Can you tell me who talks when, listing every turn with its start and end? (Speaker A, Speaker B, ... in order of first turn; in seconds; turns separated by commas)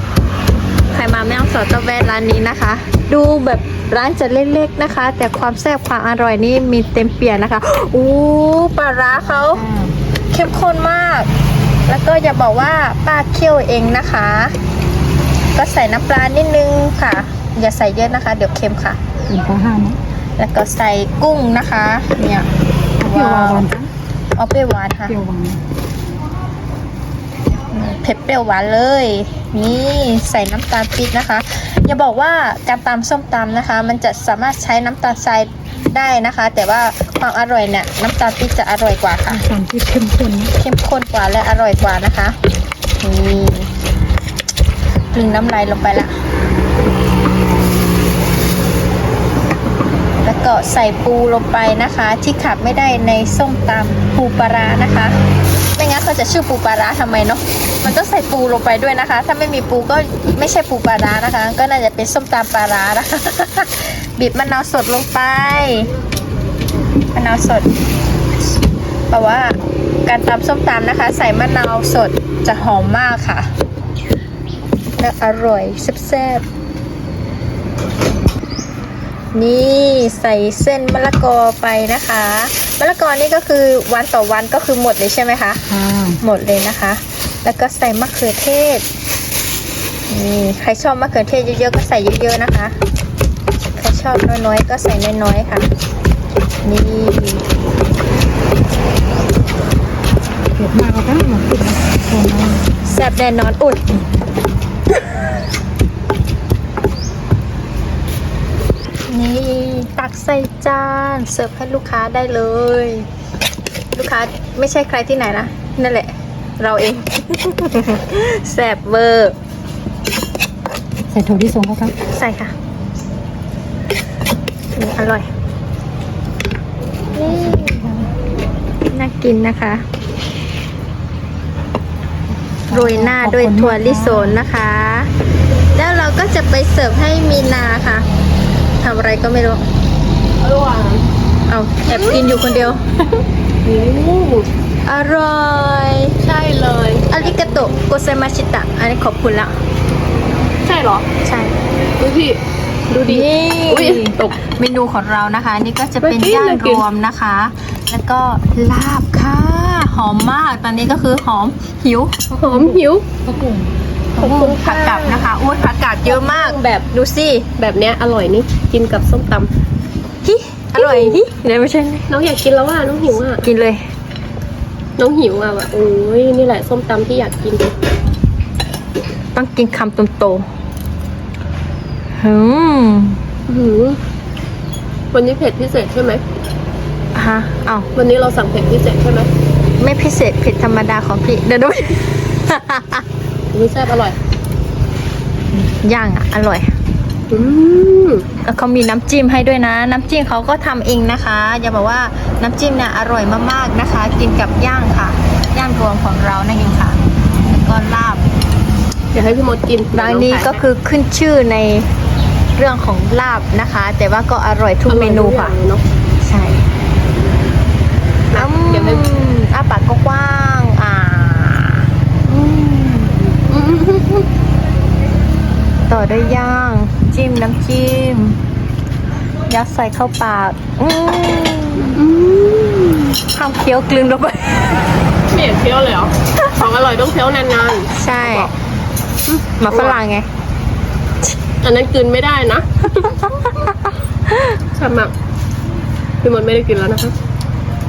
Speaker A: 0.9-9.6, Speaker B: 9.1-9.9, Speaker A: 10.3-11.3, Speaker A: 11.9-14.6, Speaker A: 15.6-19.0, Speaker B: 19.3-20.0, Speaker A: 20.4-22.5, Speaker B: 23.0-23.9, Speaker A: 23.1-23.7, Speaker A: 24.4-25.2, Speaker B: 25.1-25.6, Speaker A: 27.7-39.4, Speaker B: 39.3-40.5, Speaker A: 40.6-42.4, Speaker A: 43.0-43.7, Speaker A: 45.1-46.2, Speaker A: 50.2-55.2, Speaker A: 55.8-65.9, Speaker A: 67.1-67.7, Speaker A: 69.1-73.5, Speaker A: 75.0-76.5, Speaker A: 79.3-85.6, Speaker B: 85.7-86.2, Speaker A: 86.2-88.9, Speaker A: 90.1-92.8, Speaker A: 93.8-95.7, Speaker A: 96.6-97.5, Speaker B: 100.5-102.7, Speaker A: 102.8-103.9, Speaker A: 109.1-113.1, Speaker A: 113.9-119.4, Speaker B: 121.1-122.0, Speaker A: 122.1-122.5, Speaker A: 124.8-125.3, Speaker A: 127.1-128.0, Speaker B: 127.2-128.1, Speaker A: 128.9-129.8, Speaker B: 132.7-134.4, Speaker A: 132.7-135.1, Speaker A: 135.8-138.1, Speaker A: 138.8-139.7, Speaker C: 140.4-141.1, Speaker A: 141.5-142.8, Speaker C: 141.8-142.2, Speaker C: 143.6-144.5, Speaker A: 144.9-146.2, Speaker C: 146.2-147.8, Speaker A: 147.1-149.6, Speaker C: 150.6-151.1, Speaker A: 151.2-151.6, Speaker C: 152.0-154.4, Speaker A: 152.9-162.3, Speaker C: 156.0-156.8, Speaker B: 162.3-163.7, Speaker C: 162.4-163.1, Speaker A: 164.2-167.5, Speaker C: 164.2-165.2, Speaker C: 166.1-166.6, Speaker C: 167.6-169.5, Speaker A: 170.2-172.1, Speaker C: 170.8-171.2, Speaker C: 172.1-173.5, Speaker A: 173.4-173.9, Speaker C: 175.0-177.8, Speaker A: 179.3-180.5, Speaker A: 182.2-183.2, Speaker C: 183.5-184.0, Speaker C: 185.1-186.2, Speaker A: 187.2-187.9, Speaker C: 187.9-189.3, Speaker A: 189.8-193.1, Speaker C: 193.5-194.2, Speaker A: 195.5-196.8, Speaker C: 197.3-198.3, Speaker A: 198.4-208.2, Speaker C: 209.1-210.6, Speaker A: 209.9-211.9, Speaker A: 212.6-215.6, Speaker C: 214.9-215.8, Speaker A: 216.2-216.7, Speaker C: 218.3-219.1, Speaker A: 218.3-223.3, Speaker C: 223.5-224.3, Speaker A: 225.9-228.4, Speaker A: 229.5-232.0, Speaker C: 232.0-233.2, Speaker A: 233.3-235.1, Speaker C: 235.3-238.5, Speaker A: 237.9-238.5, Speaker C: 239.3-240.0, Speaker A: 239.6-240.3, Speaker C: 241.6-243.7, Speaker A: 243.5-244.6, Speaker C: 244.7-245.1, Speaker C: 246.2-247.2